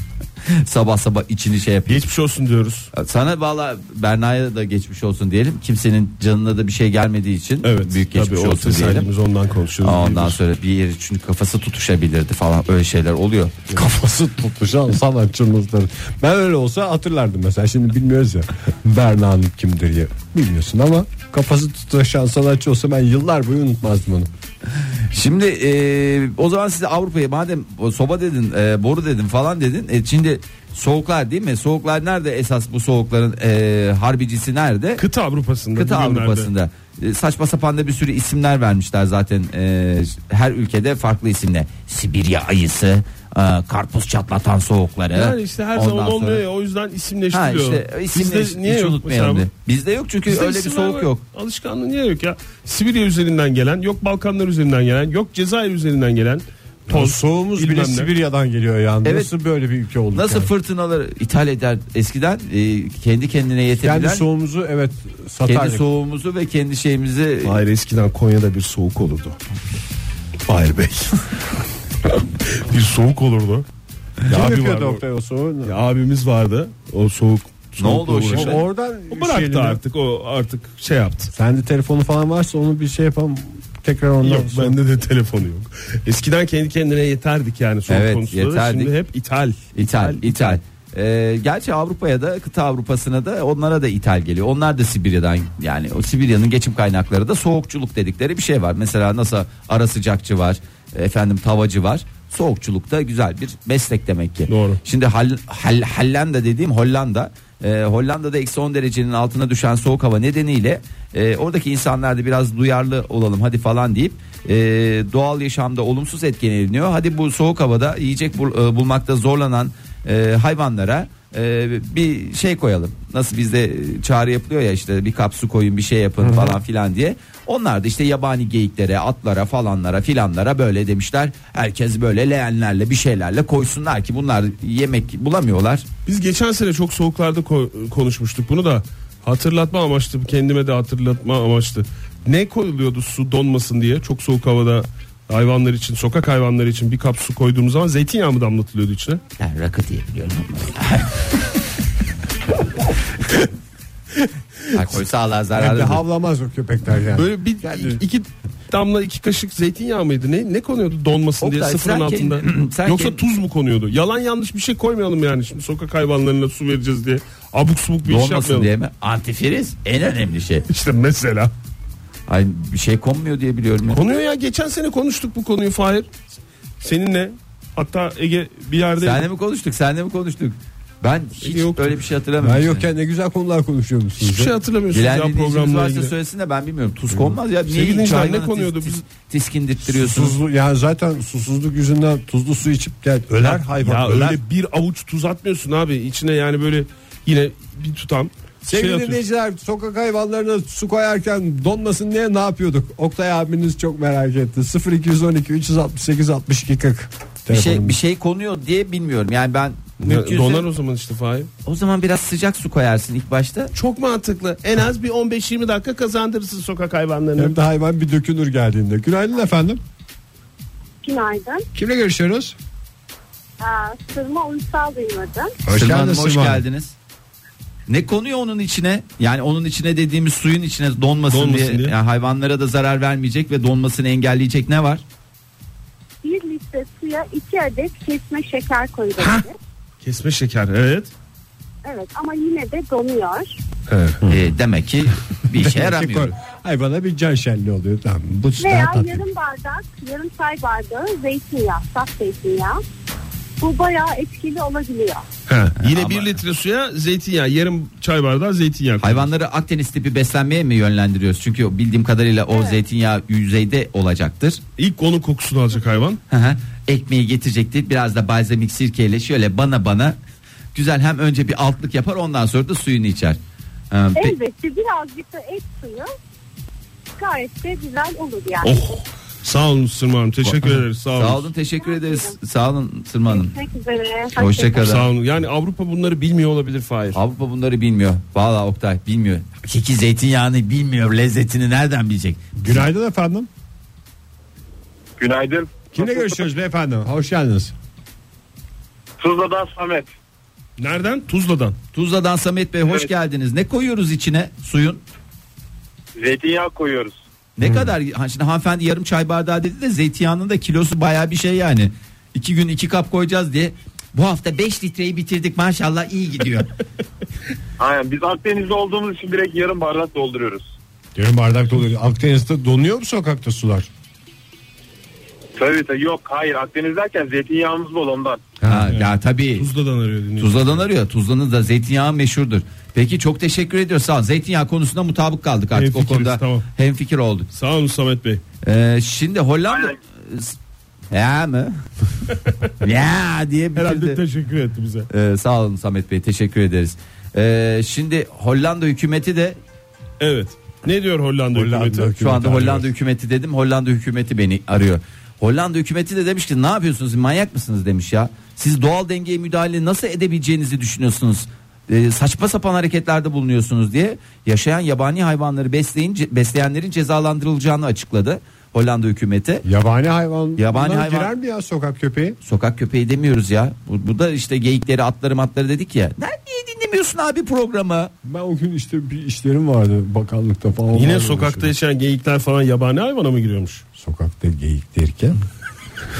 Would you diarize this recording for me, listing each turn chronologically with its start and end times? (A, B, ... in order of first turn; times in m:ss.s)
0:00.4-0:02.0 A
0:01.9-0:02.9 B
0:02.9-0:09.1 A
0:07.6-0:10.4 B
0:09.8-0:13.6 A
0:13.7-0:24.3 C
0:25.1-0:35.0 A
0:35.0-0:36.5 B
0:35.8-0:46.4 A
0:45.1-0:49.4 B
0:47.3-0:51.2 A
0:50.3-0:58.1 B
0:56.9-1:00.5 C
0:59.0-0:59.3 A
1:00.1-1:04.3 A
1:03.8-1:05.8 C
1:05.4-1:07.6 A
1:07.4-1:09.4 B
1:10.5-1:11.4 B
1:12.0-1:13.6 B
1:14.2-1:15.0 B
1:14.3-1:15.8 C
1:15.6-1:18.6 B
1:17.8-1:18.6 A
1:18.3-1:19.8 C
1:19.1-1:21.3 B
1:21.3-1:24.8 C
1:24.2-1:30.6 B
1:27.9-1:28.9 A
1:29.7-2:15.9 A
1:44.5-1:44.8 B
2:06.2-2:06.5 C
2:16.0-2:29.2 B
2:29.4-2:31.2 A
2:34.7-2:36.0 A
2:35.5-2:38.0 C
2:37.1-2:48.7 B
2:41.4-2:43.2 A
2:48.0-2:50.7 A
2:50.7-2:51.5 B
2:52.3-2:54.0 A
2:53.9-2:56.1 B
2:56.8-2:59.2 B
2:59.0-3:02.9 A
3:01.4-3:02.0 B
3:02.4-3:04.5 C
3:04.2-3:06.1 B
3:04.9-3:10.4 A
3:07.1-3:07.4 C
3:07.7-3:09.0 B
3:09.8-3:14.4 C
3:13.5-3:19.2 B
3:18.6-3:28.0 C
3:27.5-3:30.7 A
3:30.0-3:31.5 B
3:31.6-3:33.7 A
3:33.7-3:37.5 B
3:37.4-3:39.8 C
3:41.0-3:41.7 D
3:41.7-3:42.6 C
3:43.6-3:45.6 D
3:45.6-3:46.6 C
3:45.7-3:47.0 A
3:47.9-3:55.0 A
3:51.3-3:51.9 B
3:56.2-3:59.6 D
3:59.2-3:59.4 B
4:00.0-4:01.1 B
4:01.8-4:03.6 D
4:03.9-4:04.2 B
4:04.3-4:06.3 A
4:05.5-4:09.2 C
4:08.6-4:12.8 D
4:13.6-4:15.3 D
4:15.5-4:19.3 B
4:15.7-4:16.4 A
4:19.0-4:24.6 A
4:24.8-4:26.2 B
4:26.3-4:30.2 A
4:30.7-4:33.4 A
4:33.9-4:34.4 A
4:34.1-4:36.1 D
4:37.2-4:38.8 D
4:38.6-4:41.5 B
4:41.1-4:43.5 A
4:41.8-4:42.4 D
4:43.3-4:44.9 D
4:44.4-4:45.0 A
4:44.8-4:47.2 B
4:47.1-4:52.8 A
4:52.6-4:53.5 C
4:55.2-4:56.4 E
4:55.9-4:57.7 C
4:59.2-5:00.1 E
5:00.8-5:01.8 B
5:01.9-5:05.0 A
5:06.2-5:07.2 E
5:07.6-5:16.7 A
5:07.6-5:07.9 C
5:17.8-5:20.7 E
5:21.1-5:23.9 C
5:25.6-5:28.5 E
5:28.6-5:28.9 C
5:28.7-5:29.7 A
5:28.9-5:30.8 B
5:30.4-5:37.5 A
5:35.7-5:36.7 B
5:37.5-5:38.4 B
5:38.6-5:40.6 A
5:41.1-5:41.8 A
5:42.8-5:44.2 A
5:43.7-5:45.1 B
5:45.1-5:49.6 A
5:50.2-5:52.1 B
5:51.5-5:52.9 C
5:52.2-6:09.6 A
6:09.6-6:12.4 C
6:10.6-6:11.3 A
6:12.4-6:18.1 A
6:18.2-6:21.7 C
6:20.9-6:23.8 B
6:24.0-6:25.4 C